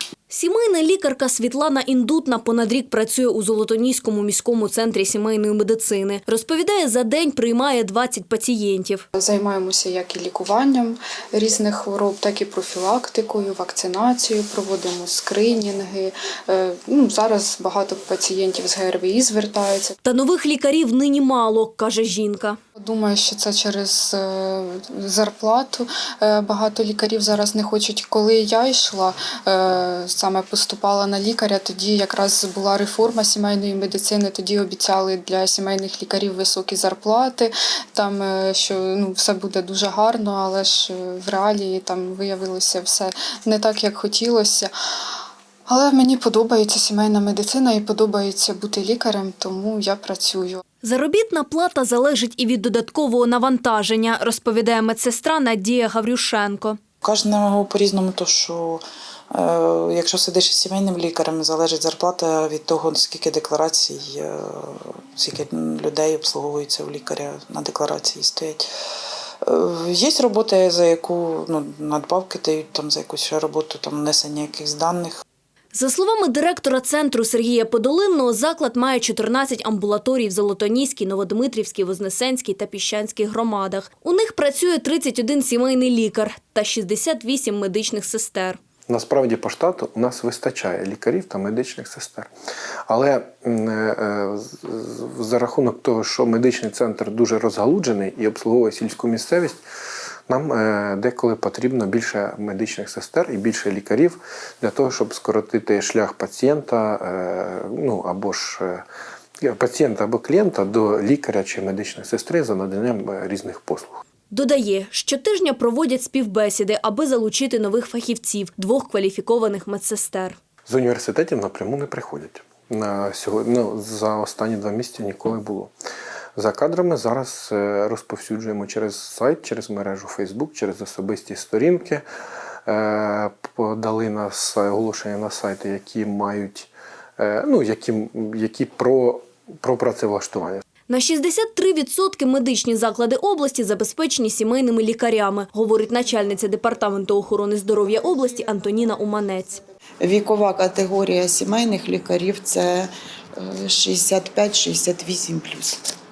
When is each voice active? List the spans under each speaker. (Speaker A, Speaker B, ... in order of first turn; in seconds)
Speaker A: 0.3-9.0, 20.0-22.6, 50.8-56.8, 75.7-88.6, 114.3-120.4, 140.9-149.6
Speaker B: 9.1-19.9, 22.8-44.7, 45.7-50.6
Speaker C: 57.0-68.7, 69.4-75.2
Speaker D: 88.9-92.3, 92.9-99.6, 100.3-108.8, 109.4-114.0, 120.7-125.7, 126.4-132.0, 132.7-140.6
Speaker E: 150.0-155.8